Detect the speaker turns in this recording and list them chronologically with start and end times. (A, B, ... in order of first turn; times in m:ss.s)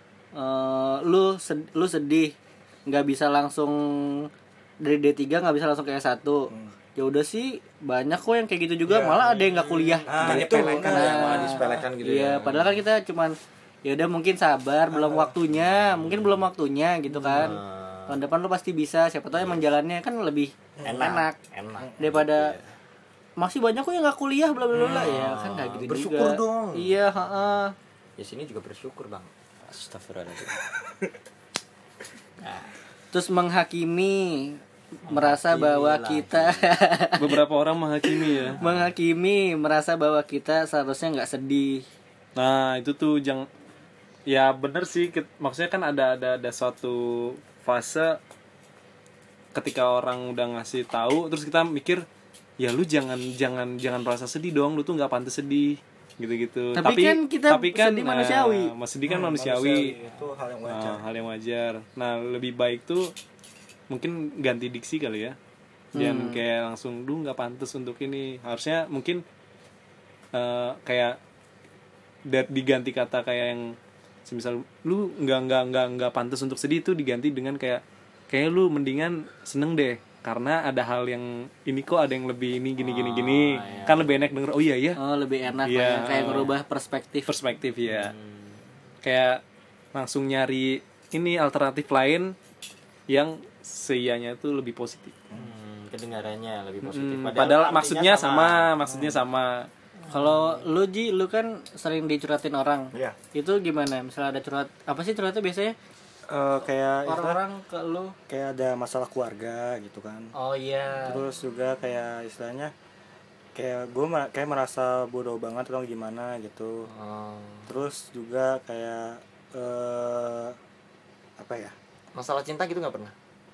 0:00.4-0:02.3 A
0:02.9-0:04.3 A
0:04.8-0:21.4 A
0:08.9-0:09.2 B
0:09.3-0:12.8 C
0:10.1-0:11.7 B
0:14.9-0:15.3 B
0:17.3-0:18.2 C
0:19.3-0:19.7 C
0:20.8-0:21.0 B
0:20.8-0:22.7 C
0:22.0-0:22.6 A
0:23.4-0:27.7 A
0:24.7-0:25.1 B
0:24.7-0:27.0 C
0:28.2-0:30.6 C
0:32.4-0:32.7 C
0:33.1-0:37.3 A
0:35.1-0:36.7 C
0:37.2-0:38.6 D
0:38.5-0:38.9 C
0:38.6-0:41.8 A
0:42.4-0:43.5 D
0:44.3-0:48.2 D
0:49.5-0:52.0 D
0:52.6-1:00.0 D
0:56.8-0:58.7 A
0:59.1-1:01.0 B
1:00.6-1:03.1 D
1:03.9-1:05.4 D
1:05.9-1:06.4 A
1:05.9-1:09.2 D
1:10.3-1:11.2 D
1:12.3-1:25.0 D
1:22.8-1:24.2 C
1:25.0-1:27.3 A
1:25.6-1:26.5 D
1:27.3-1:28.1 D
1:27.9-1:28.6 C
1:29.0-1:29.4 D
1:29.9-1:32.4 D
1:33.1-1:35.1 D
1:35.3-1:38.7 C
1:36.8-1:39.7 D
1:38.9-1:39.2 B
1:40.1-1:45.8 A
1:46.3-1:47.4 B
1:47.1-1:48.1 A
1:48.3-1:50.3 B
1:50.4-1:51.2 A
1:51.1-1:52.7 B
1:53.6-1:56.9 B
1:56.9-1:57.7 C
1:57.7-2:00.6 B
2:01.4-2:01.8 B
2:02.1-2:03.1 C